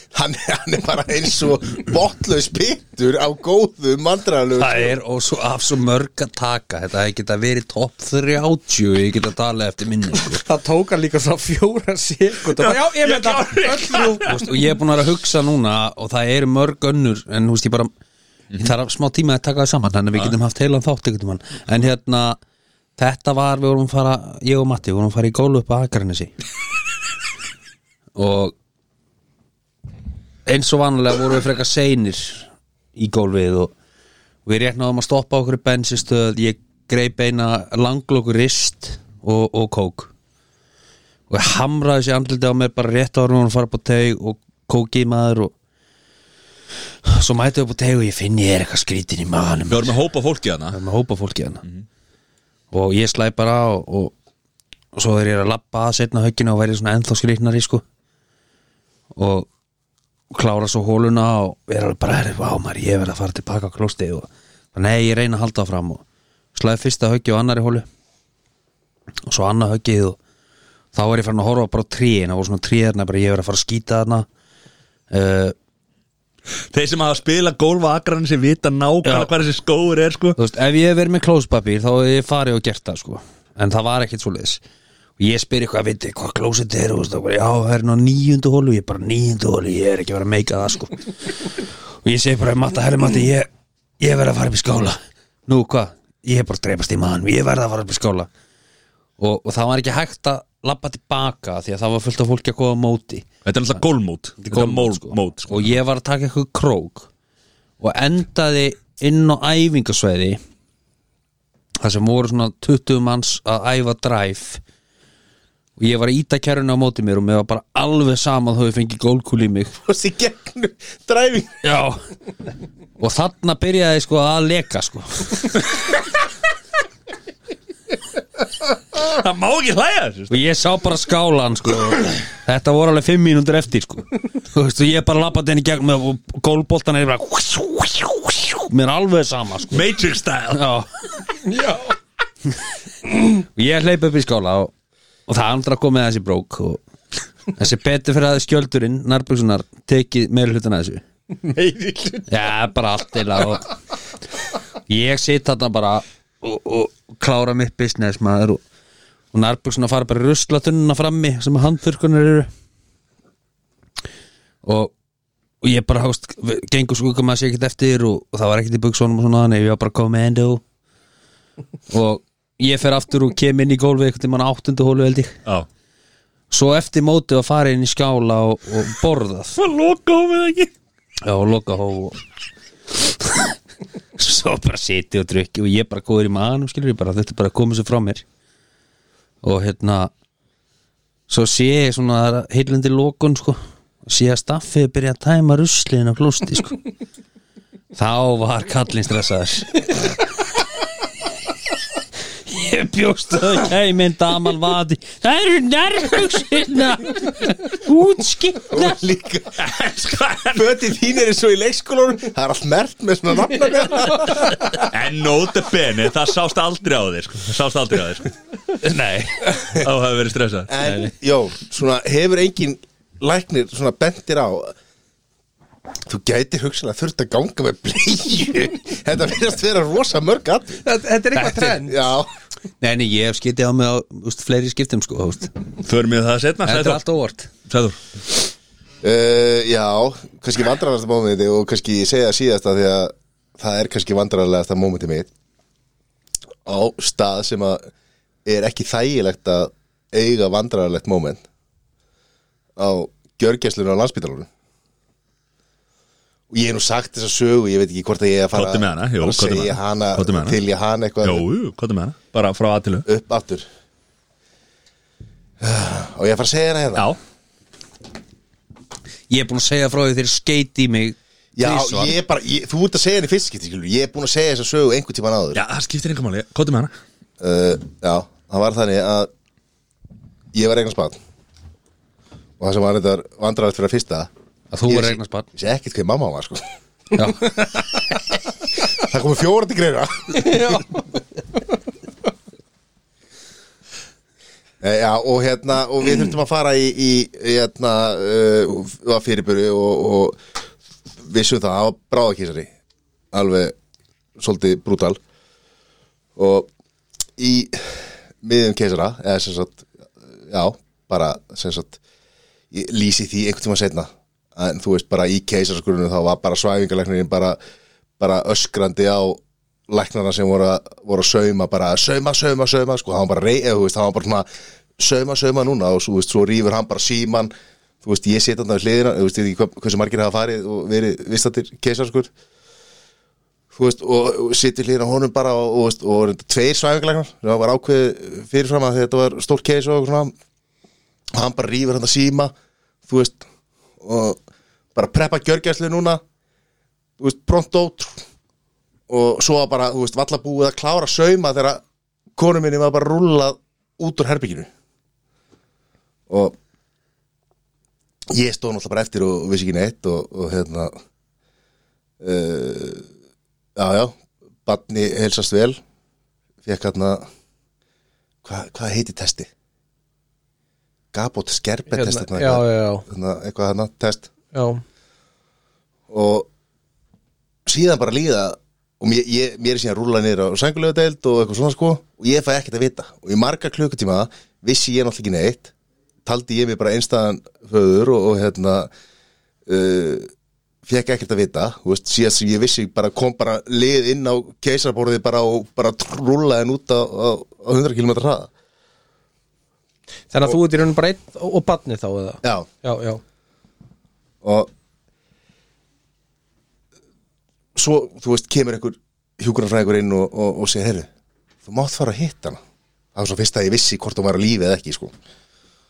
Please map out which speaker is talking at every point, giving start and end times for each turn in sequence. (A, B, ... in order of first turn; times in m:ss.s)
0:00.1-0:05.0 A
0:04.6-0:10.4 B
0:10.3-0:14.4 C
0:12.6-0:14.4 D
0:14.2-0:17.9 B
0:18.6-0:22.4 B
0:23.0-0:26.3 B
0:28.2-0:28.5 B
0:30.4-0:33.7 B
0:34.4-0:40.1 B
0:41.3-0:45.5 B
0:47.0-0:50.0 B
0:49.7-0:50.8 D
0:50.7-0:51.6 B
0:52.7-0:54.1 B
0:54.9-0:57.8 B
0:59.1-0:59.5 B
1:00.3-1:06.0 B
1:06.5-1:07.8 B
1:09.2-1:10.2 B
1:10.9-1:14.3 B
1:15.1-1:15.5 B
1:16.7-1:20.4 D
1:19.0-1:19.3 B
1:20.4-1:24.6 B
1:25.2-1:33.5 B
1:34.0-1:38.3 B
1:39.2-1:43.3 B
1:43.4-1:45.8 D
1:44.4-1:47.1 B
1:47.8-1:50.4 B
1:51.8-1:54.6 B
1:55.8-1:59.7 B
1:59.8-2:01.5 A
2:01.6-2:02.0 B
2:03.0-2:05.7 B
2:08.9-2:10.4 D
2:10.3-2:19.9 B
2:19.7-2:20.6 D
2:20.5-2:20.9 B
2:21.4-2:21.9 C
2:23.1-2:24.7 B
2:25.3-2:26.8 B
2:27.5-2:31.0 B
2:31.4-2:32.4 C
2:32.3-2:33.8 B
2:34.9-2:38.6 B
2:39.3-2:42.5 B
2:44.6-2:44.9 B
2:45.6-2:50.6 B
2:51.9-2:55.4 B
2:56.5-2:59.6 B
2:59.6-3:00.7 D
3:01.2-3:02.2 B
3:02.9-3:03.6 B
3:04.2-3:08.2 B
3:09.4-3:10.1 B
3:11.3-3:16.8 B
3:17.9-3:20.2 B
3:22.4-3:29.0 B
3:28.7-3:29.6 A
3:29.6-3:30.6 D
3:30.5-3:34.6 A
3:34.7-3:38.3 D
3:38.8-3:39.4 B
3:39.4-3:40.7 D
3:40.7-3:44.7 A
3:46.0-3:50.8 A
3:50.8-3:52.1 C
3:51.4-3:51.8 B
3:51.8-3:52.3 A
3:52.8-3:55.5 B
3:55.8-3:57.0 D
3:56.6-3:57.5 B
3:57.6-3:58.0 D
3:59.0-4:05.3 A
4:06.6-4:07.8 A
4:08.4-4:11.4 A
4:12.8-4:14.5 A
4:16.5-4:21.4 A
4:18.5-4:20.6 D
4:21.2-4:23.1 D
4:23.0-4:23.7 A
4:25.6-4:27.1 A
4:29.3-4:32.1 B
4:31.6-4:35.6 A
4:35.5-4:36.9 D
4:37.4-4:39.3 A
4:40.5-4:41.2 A
4:42.6-4:44.3 A
4:44.7-4:45.4 B
4:44.8-4:46.6 A
4:47.1-4:47.8 B
4:48.9-4:50.8 A
4:50.4-4:50.9 C
4:54.8-5:00.4 A
5:01.2-5:02.7 A
5:03.3-5:03.7 A
5:04.4-5:05.2 A
5:06.4-5:06.7 A
5:07.4-5:09.9 A
5:10.4-5:12.0 A
5:12.7-5:17.6 A
5:18.2-5:24.5 A
5:25.0-5:27.5 A
5:28.0-5:32.3 A
5:33.7-5:40.3 A
5:41.3-5:42.5 A
5:43.1-5:43.4 A
5:44.0-5:44.4 A
5:44.9-5:46.2 A
5:47.2-5:48.2 A
5:49.1-5:51.8 A
5:52.3-5:54.7 A
5:56.3-5:56.5 A
5:58.3-6:00.9 A
6:02.2-6:03.1 A
6:03.8-6:05.8 A
6:06.6-6:07.2 A
6:08.4-6:09.5 A
6:11.1-6:14.3 A
6:11.9-6:13.0 C
6:14.5-6:14.8 C
6:16.1-6:16.5 A
6:17.6-6:25.7 A
6:26.2-6:28.9 A
6:29.6-6:30.3 A
6:30.8-6:38.5 A
6:40.3-6:43.2 C
6:42.4-6:42.7 A
6:44.4-6:44.7 A
6:47.7-6:51.1 A
6:51.6-6:52.6 A
6:53.1-6:55.1 A